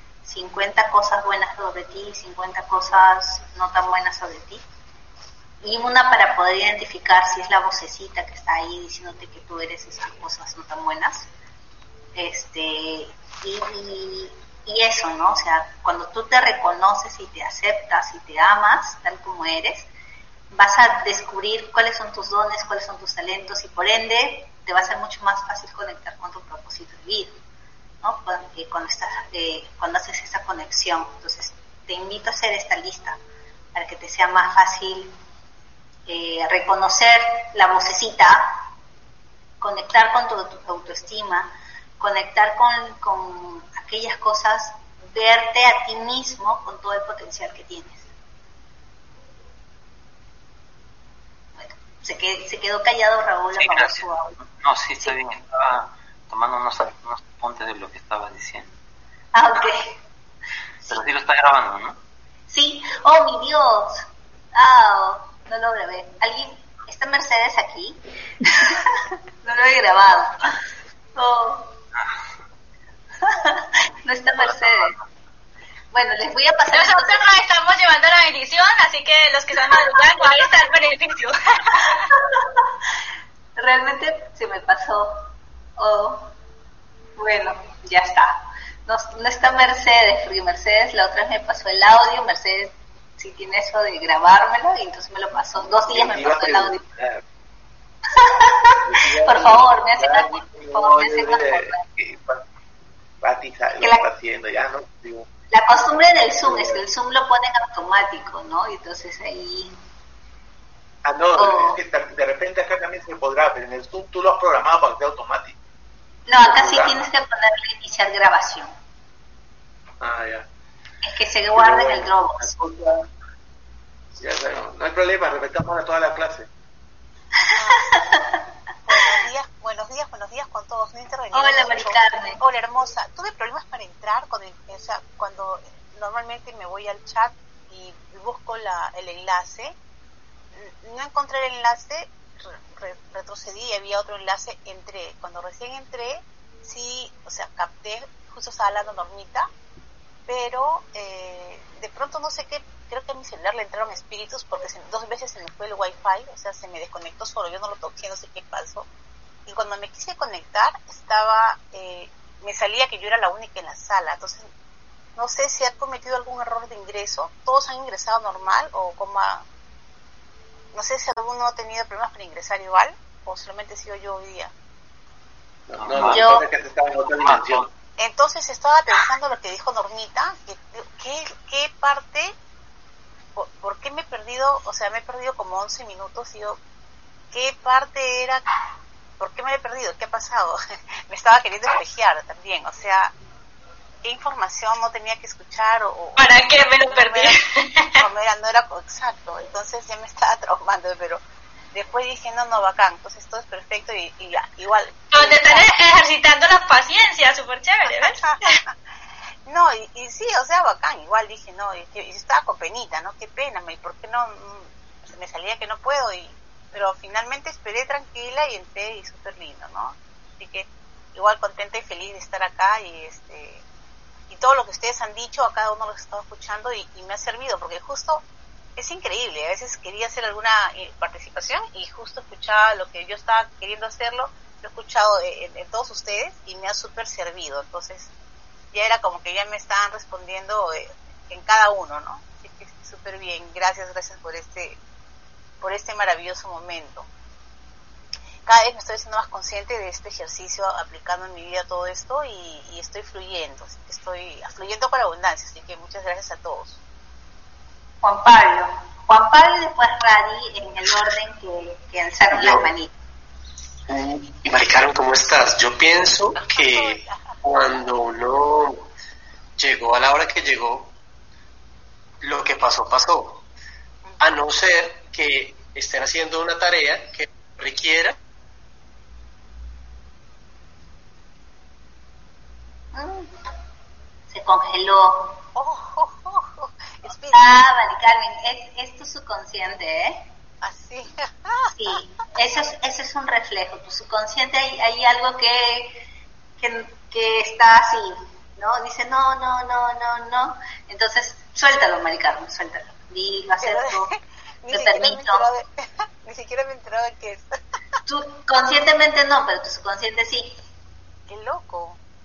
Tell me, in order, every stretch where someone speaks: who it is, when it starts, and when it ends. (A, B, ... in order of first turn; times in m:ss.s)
0:00.2-0:04.6 A
0:05.6-0:11.3 A
0:12.1-0:19.9 A
0:20.5-0:27.3 A
0:28.0-0:33.2 A
0:33.7-0:35.1 A
0:36.0-0:38.6 A
0:39.6-0:48.1 A
0:51.6-0:54.4 A
0:53.5-0:58.7 B
0:59.3-1:00.0 A
1:00.9-1:02.0 B
1:02.5-1:10.5 A
1:11.1-1:11.8 A
1:13.2-1:15.0 A
1:14.5-1:14.9 B
1:15.9-1:17.4 A
1:16.7-1:22.1 C
1:19.7-1:20.2 A
1:21.7-1:22.7 A
1:23.6-1:26.3 A
1:27.2-1:36.8 A
1:35.6-1:37.2 D
1:38.1-1:41.8 A
1:38.8-1:42.4 D
1:43.2-1:45.3 D
1:43.8-1:44.1 A
1:45.5-1:49.7 A
1:46.4-1:46.8 D
1:51.0-1:55.6 D
1:51.4-1:51.8 A
1:56.3-1:58.7 A
1:56.4-1:57.0 D
2:00.0-2:00.5 D
2:01.0-2:02.5 A
2:01.6-2:03.0 D
2:04.2-2:06.5 D
2:07.5-2:09.1 A
2:07.5-2:08.0 E
2:08.9-2:19.8 E
2:11.3-2:12.4 A
2:20.6-2:29.5 E
2:30.3-2:38.9 E
2:39.5-2:44.4 E
2:45.2-2:49.4 E
2:50.7-2:54.5 E
2:55.7-2:57.7 D
2:55.7-2:56.4 B
2:56.1-2:56.4 A
2:57.2-2:57.7 B
2:58.0-3:02.3 E
3:03.3-3:06.6 E
3:07.3-3:08.4 E
3:09.2-3:13.1 E
3:14.0-3:17.4 E
3:16.2-3:18.0 C
3:18.0-3:21.2 E
3:21.7-3:25.7 E
3:25.1-3:28.6 C
3:27.9-3:28.7 E
3:29.4-3:43.6 E
3:44.3-3:48.2 E
3:48.8-3:58.1 E
3:58.7-4:04.8 E
4:05.6-4:07.1 E
4:08.4-4:16.8 E
4:18.0-4:22.9 A
4:22.3-4:22.6 F
4:23.9-4:28.8 F
4:26.4-4:27.3 E
4:29.6-4:30.9 F
4:32.2-4:33.4 F
4:34.2-4:38.1 F
4:42.9-4:43.3 A
4:44.3-4:45.4 A
4:45.5-4:47.6 E
4:47.3-4:50.2 A
4:50.6-4:51.8 E
4:51.7-4:56.0 A
4:56.6-5:04.1 A
5:03.6-5:07.6 E
5:04.7-5:05.5 A
5:08.1-5:10.6 A
5:11.3-5:12.0 E